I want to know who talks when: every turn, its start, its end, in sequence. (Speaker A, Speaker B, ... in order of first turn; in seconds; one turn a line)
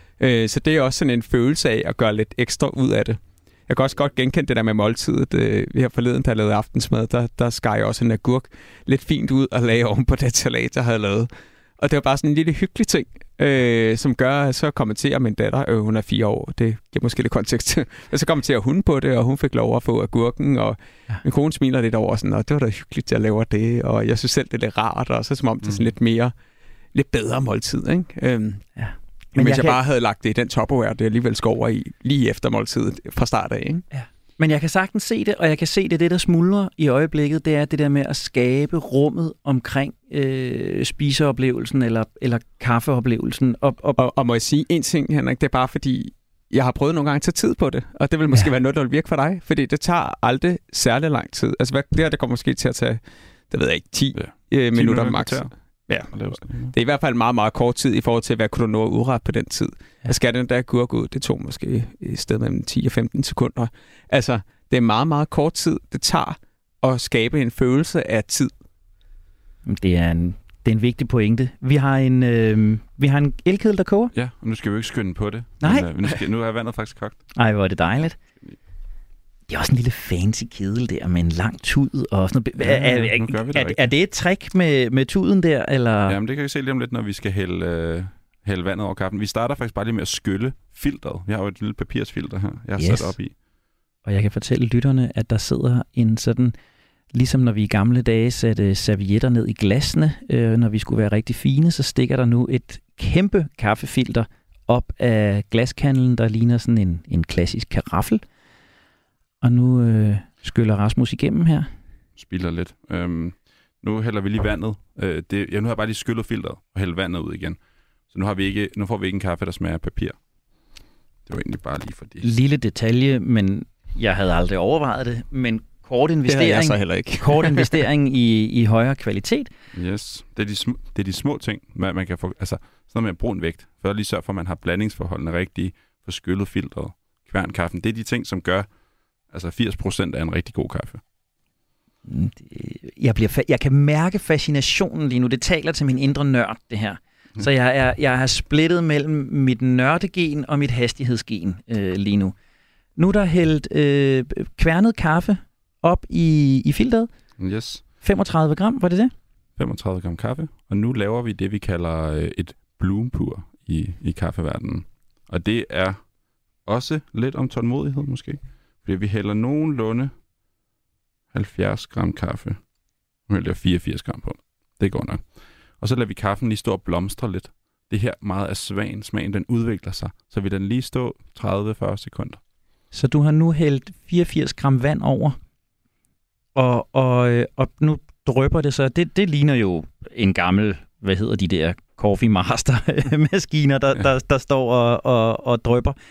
Speaker A: 0.2-26.3
Speaker A: 26.9-28.7
Speaker B: 28.8-29.8
Speaker A: 29.4-33.9
Speaker B: 33.9-44.0
Speaker A: 44.0-56.1
Speaker C: 54.2-55.5
Speaker C: 56.1-56.7
Speaker A: 56.7-68.5
Speaker B: 69.7-74.1
Speaker C: 74.1-77.2
Speaker B: 75.6-76.1
Speaker B: 77.4-78.2
Speaker B: 79.5-86.2
Speaker C: 82.6-83.9
Speaker C: 86.1-93.3
Speaker B: 92.8-93.1
Speaker B: 94.1-96.5
Speaker B: 97.1-108.2
Speaker B: 109.4-111.7
Speaker C: 112.2-117.6
Speaker C: 118.1-120.2
Speaker C: 121.3-122.2
Speaker B: 122.2-129.5
Speaker A: 126.3-127.8
Speaker C: 129.7-138.7
Speaker C: 139.3-141.0
Speaker B: 142.1-152.3
Speaker B: 153.0-157.1
Speaker C: 157.4-157.8
Speaker B: 158.0-159.1
Speaker C: 159.6-166.0
Speaker C: 166.6-170.1
Speaker C: 171.3-172.6
Speaker C: 173.3-175.2
Speaker C: 175.8-182.4
Speaker B: 182.9-185.4
Speaker B: 186.6-195.9